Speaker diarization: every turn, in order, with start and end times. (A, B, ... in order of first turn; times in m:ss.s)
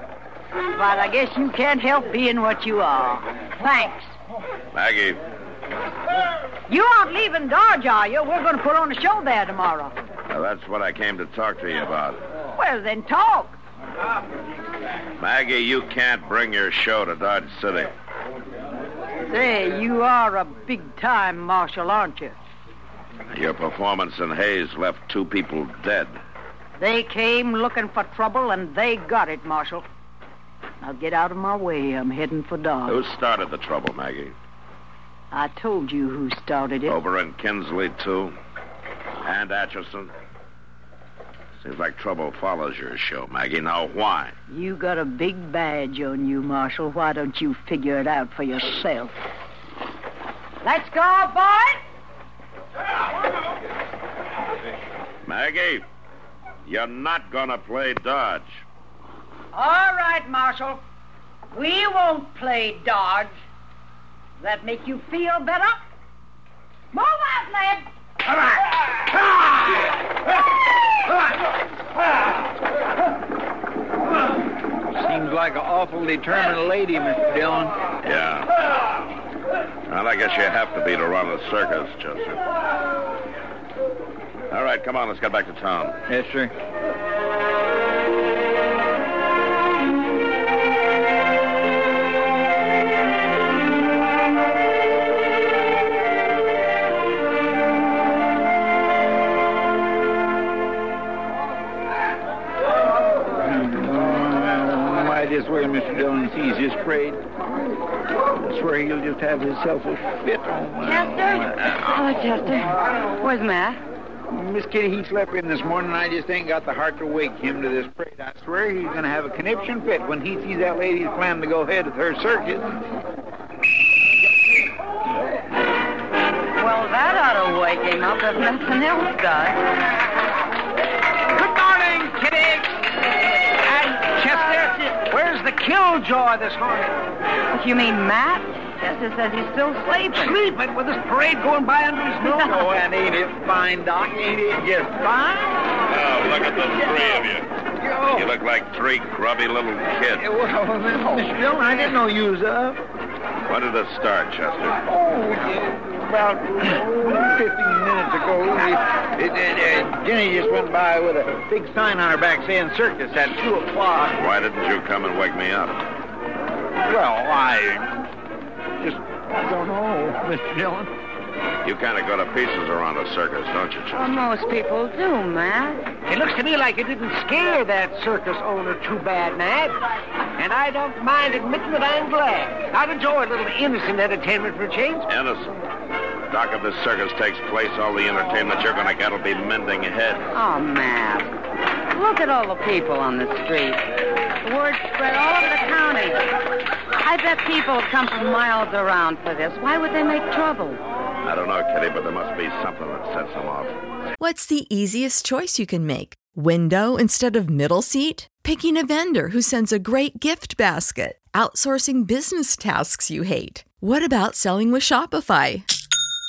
0:00.7-0:04.2 A
0:04.7-0:05.2 B
0:06.7-0:10.0 A
0:10.3-0:12.3 B
0:12.6-0:13.6 A
0:15.2-0:17.9 B
0:19.2-0:22.4 A
0:23.3-0:26.2 B
0:26.8-0:29.9 A
0:30.8-0:33.0 A
0:32.9-0:34.4 B
0:35.3-0:37.0 A
0:36.9-0:38.4 B
0:39.2-0:40.1 B
0:41.6-0:44.4 B
0:44.5-0:49.2 A
0:50.6-0:51.8 A
0:55.2-0:55.9 B
0:56.7-0:58.6 B
0:59.5-1:00.8 A
1:01.5-1:03.3 A
1:04.4-1:05.8 A
1:06.9-1:07.9 A
1:14.9-1:17.8 C
1:18.0-1:18.5 B
1:19.9-1:22.4 B
1:24.5-1:26.0 B
1:26.1-1:26.5 C
1:43.4-1:47.2 C
1:48.4-1:51.5 C
1:50.8-1:53.8 D
1:54.3-2:02.8 C
2:06.6-2:09.6 D
2:11.3-2:12.8 E
2:13.6-2:17.0 E
2:17.5-2:20.4 D
2:20.1-2:22.4 E
2:22.2-2:25.8 C
2:25.9-2:27.5 B
2:27.8-2:28.3 C
2:28.1-2:30.3 B
2:30.2-2:32.8 C
2:33.5-2:34.8 B
2:34.9-2:44.2 C
2:44.2-2:45.8 B
2:46.9-2:47.9 C
2:48.8-2:50.9 C
2:51.6-2:54.1 B
2:54.0-2:55.9 D
2:56.1-2:59.8 E
3:00.4-3:05.1 E
3:05.1-3:05.6 B
3:06.3-3:10.3 B
3:10.3-3:11.3 D
3:11.9-3:13.9 D
3:14.4-3:16.3 D
3:17.0-3:20.8 D
3:21.2-3:23.8 B
3:24.2-3:35.7 F